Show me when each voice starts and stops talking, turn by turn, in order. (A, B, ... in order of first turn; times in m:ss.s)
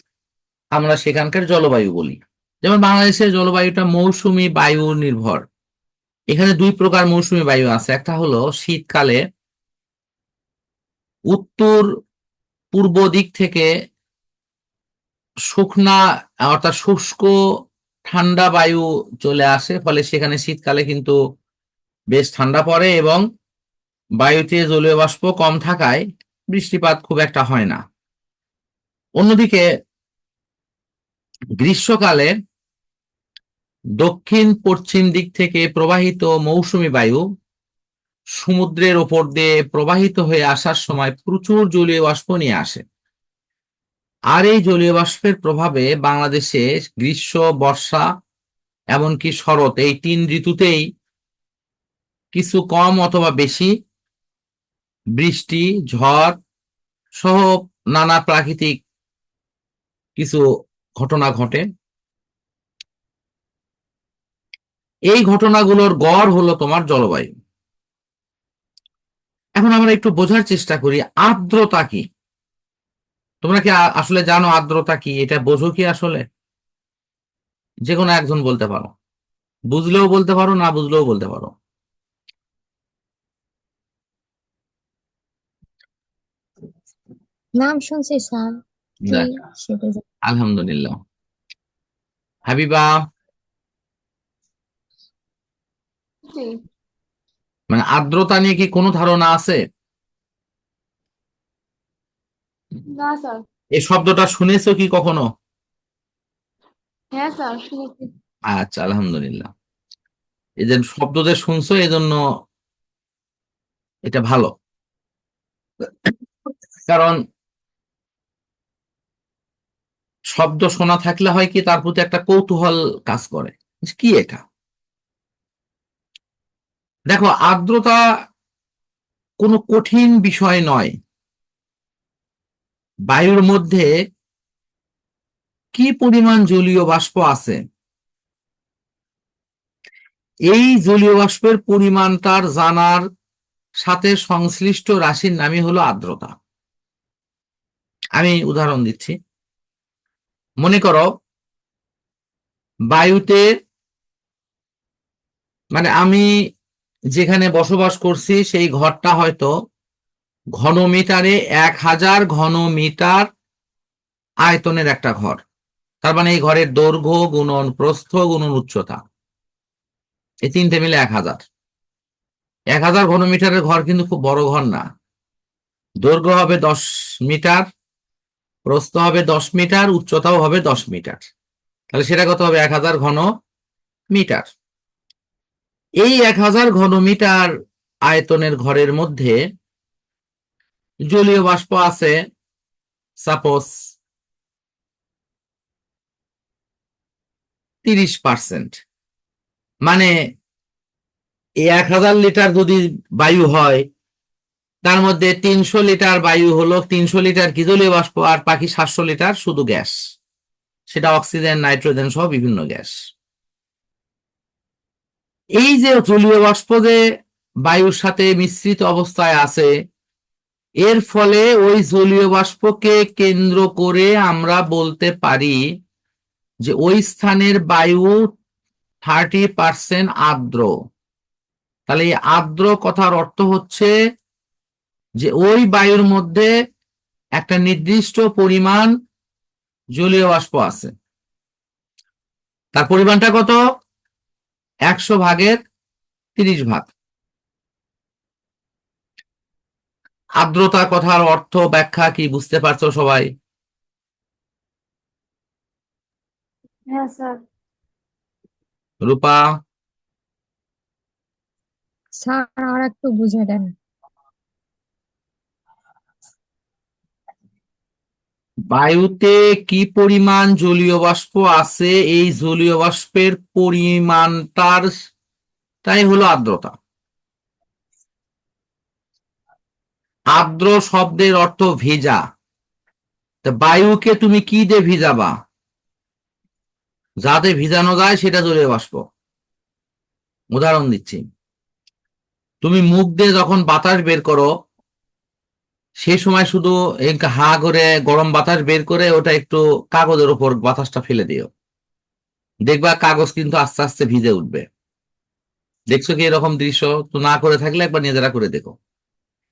0:00.8-0:05.4 A
0:06.3-0:09.2 A
0:11.3-0:11.9 A
0:12.7-0:13.7 A
0:15.5-0:17.3 A
0:18.1-0:21.2 A
0:22.1-0:23.2 A
0:24.2-0:27.8 A
0:29.2-0:29.6 A
0:31.6-0:32.3 A
0:34.0-0:37.2 A
0:38.4-0:42.8 A
0:44.3-0:48.0 A
0:48.9-0:50.9 A
0:52.3-0:53.7 A
0:55.2-0:56.4 A
0:57.2-0:58.8 A
1:00.2-1:00.4 A
1:01.0-1:01.6 A
1:05.1-1:07.3 A
1:09.6-1:12.0 A
1:13.4-1:16.2 A
1:17.9-1:18.9 A
1:19.7-1:21.5 A
1:27.6-1:30.0 B
1:30.3-1:31.0 A
1:32.5-1:32.9 A
1:36.3-1:36.6 C
1:37.7-1:39.6 A
1:42.9-1:43.4 C
1:43.8-1:45.2 A
1:47.1-1:48.1 C
1:48.5-1:49.5 A
1:50.6-1:52.2 A
1:54.1-1:54.5 A
1:56.9-1:57.2 A
2:00.3-2:04.4 A
2:07.1-2:08.0 A
2:09.4-2:10.9 A
2:13.1-2:13.9 A
2:15.7-2:17.6 A
2:20.5-2:23.0 A
2:23.8-2:26.3 A
2:28.2-2:29.2 A
2:30.6-2:31.1 A
2:32.9-2:33.4 A
2:35.7-2:36.2 A
2:37.1-2:39.5 A
2:40.6-2:43.3 A
2:44.4-2:45.4 A
2:46.0-2:49.0 A
2:50.4-2:51.4 A
2:52.7-2:54.9 A
2:56.0-2:57.7 A
2:58.7-3:01.3 A
3:01.9-3:03.2 A
3:04.1-3:04.5 A
3:06.0-3:07.5 A
3:08.1-3:09.4 A
3:11.1-3:12.1 A
3:13.2-3:13.7 A
3:17.8-3:18.8 A
3:21.7-3:23.8 A
3:24.8-3:30.0 A
3:30.9-3:33.0 A
3:35.6-3:37.0 A
3:37.6-3:39.7 A
3:40.8-3:45.6 A
3:46.6-3:48.3 A
3:49.0-3:50.7 A
3:51.9-3:53.9 A
3:55.2-3:56.5 A
3:57.4-3:58.9 A
4:00.0-4:00.9 A
4:02.7-4:03.6 A
4:04.9-4:05.6 A
4:06.4-4:06.9 A
4:10.4-4:13.3 A
4:16.9-4:17.4 C
4:19.0-4:19.4 A
4:22.1-4:23.7 B
4:28.7-4:34.9 A
4:35.8-4:36.7 A
4:40.3-4:42.2 A
4:43.4-4:45.3 A
4:47.2-4:49.0 A
4:50.5-4:51.2 A
4:52.6-4:54.5 A
4:56.0-5:01.5 A
5:02.7-5:04.6 A
5:05.9-5:08.7 A